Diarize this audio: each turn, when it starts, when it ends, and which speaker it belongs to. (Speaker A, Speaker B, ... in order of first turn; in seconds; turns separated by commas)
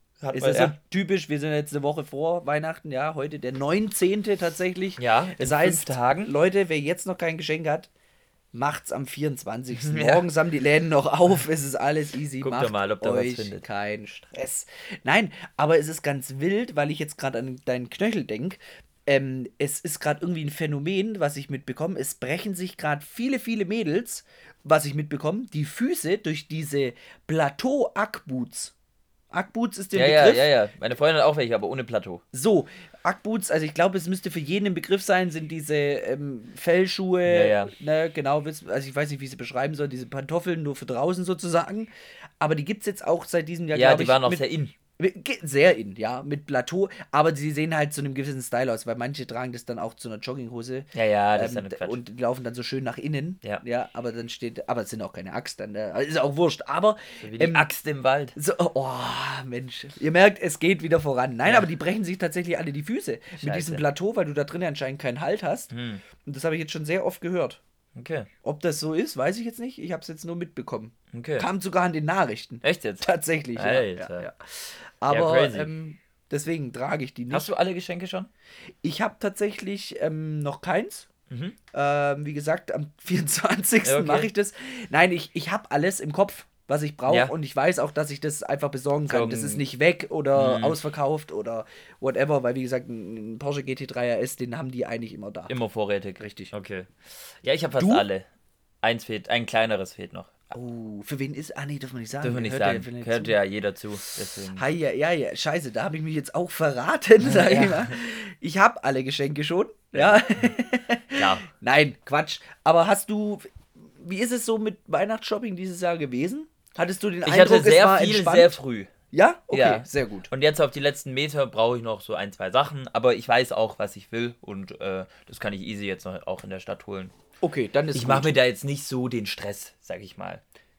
Speaker A: 0.2-0.8, Speaker B: 0.3-7.9, Speaker A: 5.0-6.3, Speaker B: 8.5-28.7, Speaker A: 9.7-10.2, Speaker A: 12.4-13.6, Speaker B: 29.3-30.5, Speaker A: 29.9-32.2, Speaker B: 32.3-44.4, Speaker A: 37.2-37.7, Speaker A: 43.7-44.7, Speaker B: 45.0-57.7, Speaker A: 50.9-52.0, Speaker A: 57.2-58.4, Speaker B: 58.4-67.6, Speaker A: 63.4-63.8, Speaker A: 65.7-66.0, Speaker A: 67.9-68.3, Speaker B: 68.4-77.5, Speaker A: 71.1-71.5, Speaker A: 72.6-74.3, Speaker A: 75.1-75.7, Speaker A: 77.3-78.3, Speaker B: 78.8-81.1, Speaker A: 81.3-81.6, Speaker B: 81.7-95.5, Speaker A: 83.8-84.3, Speaker A: 87.1-87.3, Speaker A: 89.1-89.6, Speaker A: 90.3-90.8, Speaker A: 95.5-96.9, Speaker B: 96.2-96.5, Speaker A: 97.4-98.3, Speaker B: 97.8-98.1, Speaker A: 98.8-100.5, Speaker B: 100.5-103.3, Speaker A: 102.2-104.7, Speaker B: 104.5-118.6, Speaker A: 107.2-107.9, Speaker A: 109.9-110.5, Speaker A: 111.1-111.5, Speaker A: 117.2-118.9, Speaker B: 119.1-120.3, Speaker A: 119.5-127.1, Speaker B: 127.4-128.4, Speaker A: 127.9-130.4